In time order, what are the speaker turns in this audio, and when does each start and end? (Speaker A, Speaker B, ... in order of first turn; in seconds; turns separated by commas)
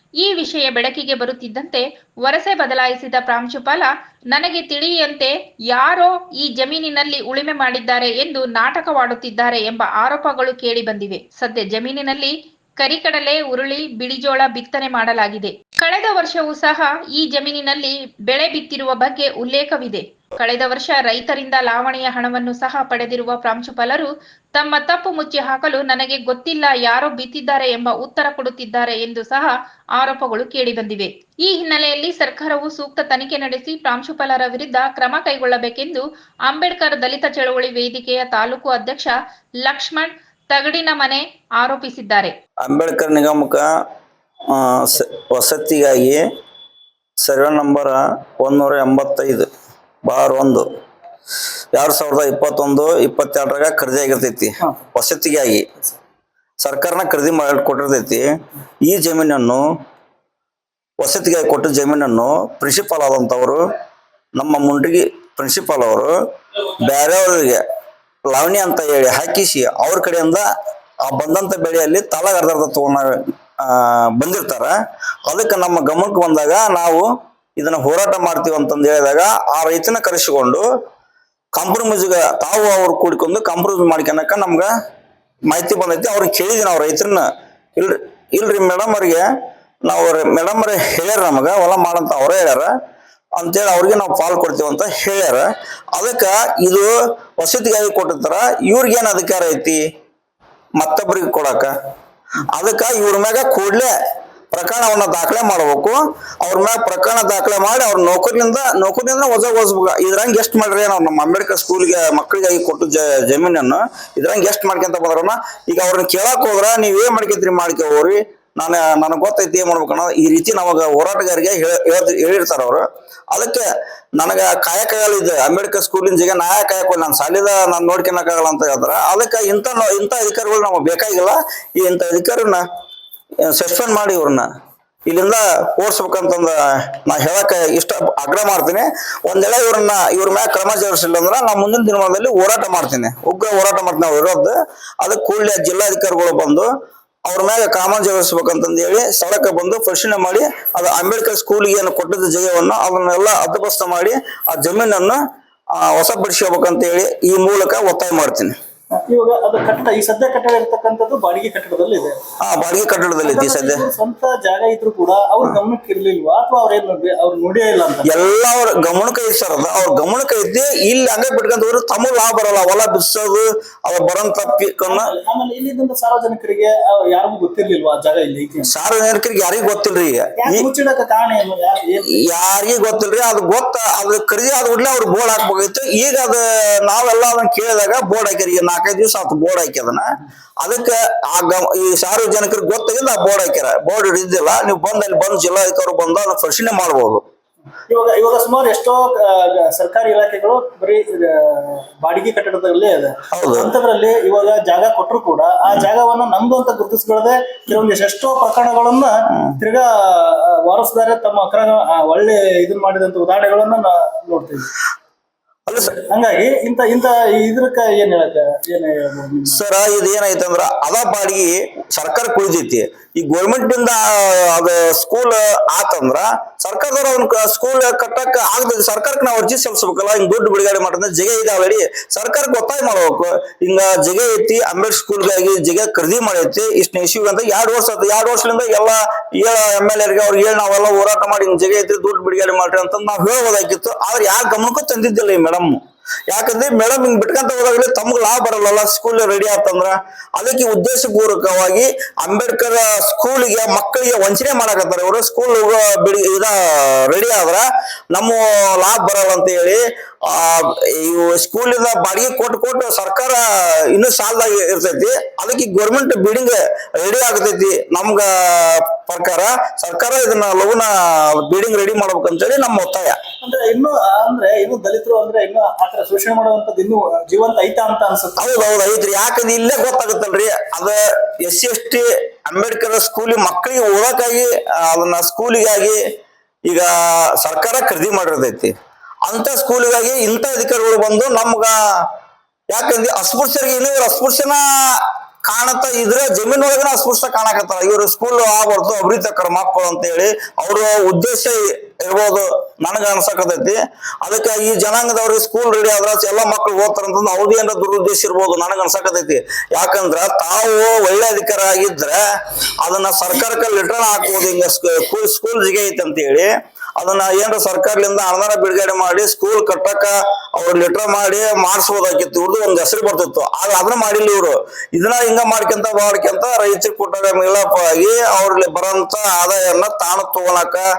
Speaker A: 0.2-42.3, Speaker B: 42.6-43.7, Speaker B: 44.5-46.2, Speaker B: 47.2-49.5, Speaker B: 50.0-50.7, Speaker B: 51.7-55.7, Speaker B: 56.6-58.3, Speaker B: 58.9-59.6, Speaker B: 61.0-63.6, Speaker B: 64.4-66.1, Speaker B: 66.8-67.6, Speaker B: 68.3-70.4, Speaker B: 71.0-73.1, Speaker B: 73.6-74.7, Speaker B: 75.3-77.1, Speaker B: 77.6-80.6, Speaker B: 81.5-84.7, Speaker B: 85.5-89.2, Speaker B: 89.9-92.7, Speaker B: 93.4-99.8, Speaker B: 100.8-101.7, Speaker B: 102.5-103.9, Speaker B: 104.5-123.7, Speaker B: 124.2-132.6, Speaker B: 133.4-134.5, Speaker B: 135.1-146.7, Speaker B: 147.2-155.2, Speaker B: 155.8-158.5, Speaker C: 159.1-162.2, Speaker B: 162.4-163.8, Speaker C: 163.2-168.1, Speaker B: 168.1-175.1, Speaker C: 174.9-178.7, Speaker B: 178.7-180.7, Speaker C: 180.4-182.2, Speaker B: 182.2-190.1, Speaker B: 190.6-197.2, Speaker C: 197.9-214.7, Speaker B: 203.3-203.7, Speaker B: 215.7-215.9, Speaker C: 215.8-219.6, Speaker B: 219.5-245.8, Speaker B: 246.3-273.2, Speaker C: 273.4-278.6, Speaker B: 278.4-286.0, Speaker B: 286.7-288.7, Speaker B: 289.2-291.7, Speaker B: 292.7-312.2, Speaker B: 312.8-330.9